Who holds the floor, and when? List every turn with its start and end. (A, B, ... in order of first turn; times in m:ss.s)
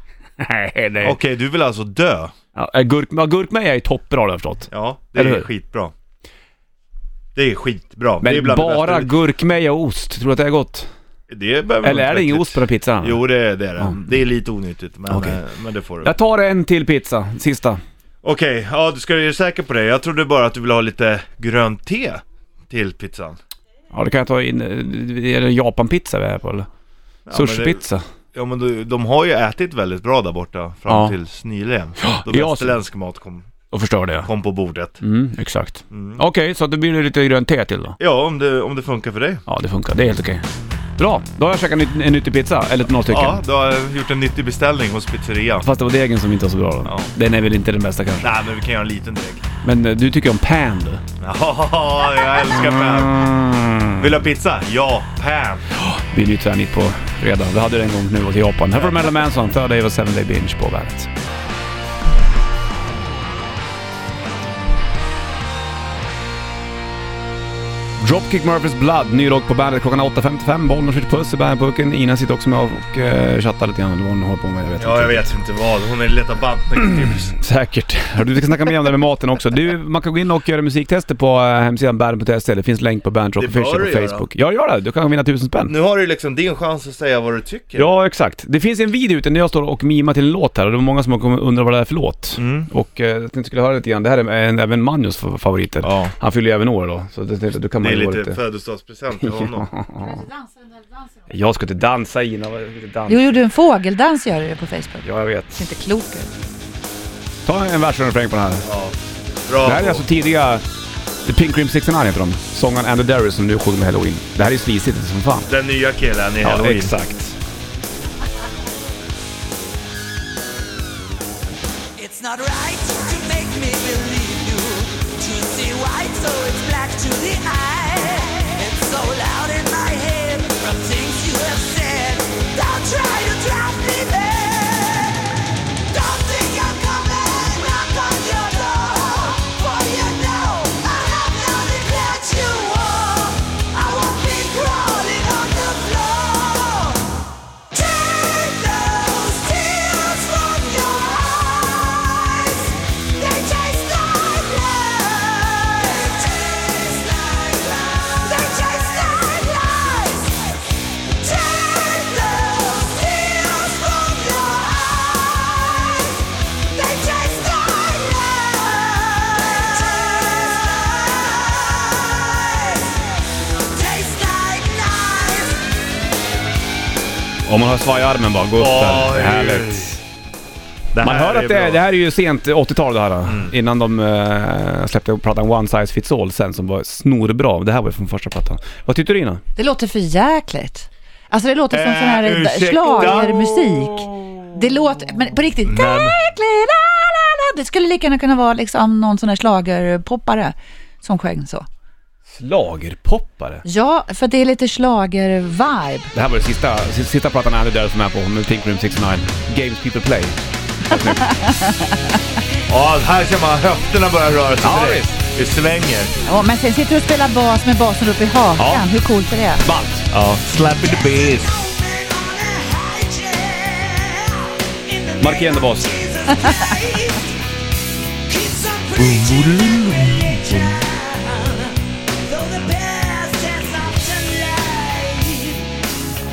0:00.4-0:01.2 A
0:01.0-0:02.3 B
0:02.5-0:05.5 A
0:04.7-0:05.9 B
0:07.3-0:09.1 B
0:08.2-0:10.9 A
0:11.3-0:16.1 B
0:11.8-0:13.2 A
0:15.1-0:15.4 A
0:16.0-0:17.8 A
0:18.2-0:23.4 B
0:23.9-0:26.7 A
0:27.3-0:27.8 B
0:27.3-0:28.0 A
0:28.3-0:33.5 B
0:30.9-0:31.1 A
0:32.0-0:32.8 A
0:33.7-0:34.3 A
0:34.2-0:35.0 B
0:35.0-0:38.0 A
0:35.9-0:36.2 B
0:38.0-0:39.4 B
0:39.5-0:40.4 A
0:41.0-0:43.4 A
0:43.1-0:45.7 B
0:45.6-0:48.3 A
0:46.8-0:47.1 B
0:48.2-0:49.4 B
0:49.6-0:51.0 A
0:51.2-0:53.3 B
0:52.4-0:54.0 A
0:54.0-0:55.6 B
0:55.7-1:01.1 A
0:58.7-0:59.1 B
1:08.0-1:15.2 A
1:14.8-1:17.3 B
1:16.8-1:25.7 A
1:23.4-1:24.3 B
1:25.7-1:27.9 B
1:27.8-1:38.4 A
1:32.4-1:32.7 B
1:35.8-1:36.1 B
1:37.8-1:39.7 B
1:39.2-1:40.2 A
1:41.3-1:43.3 A
1:43.1-1:46.3 C
1:45.0-1:45.6 A
1:47.4-1:48.7 A
1:48.6-1:50.0 B
1:49.6-1:50.6 A
1:51.2-1:55.5 A
1:55.4-1:56.9 B
1:56.4-1:57.4 A
2:02.0-2:15.4 D
2:15.9-2:27.2 D
2:27.7-2:55.7 D
2:57.4-3:00.0 A
2:58.6-2:59.9 B
3:00.9-3:01.8 B
3:01.0-3:09.4 A
3:03.2-3:03.5 B
3:09.6-3:21.6 C
3:11.7-3:13.9 B
3:14.1-3:14.6 A
3:15.6-3:16.2 B
3:22.3-3:23.6 A
3:23.6-3:26.1 C
3:26.1-3:31.2 A
3:30.9-3:32.2 C
3:32.7-3:36.1 B
3:34.6-3:35.2 A
3:36.2-3:39.6 C
3:38.6-3:38.8 A
3:39.6-3:40.1 A
3:40.1-3:41.5 B
3:40.8-3:47.4 D
3:45.2-3:46.0 A
3:46.4-3:46.7 C
3:48.2-3:55.8 D
3:49.0-3:50.8 B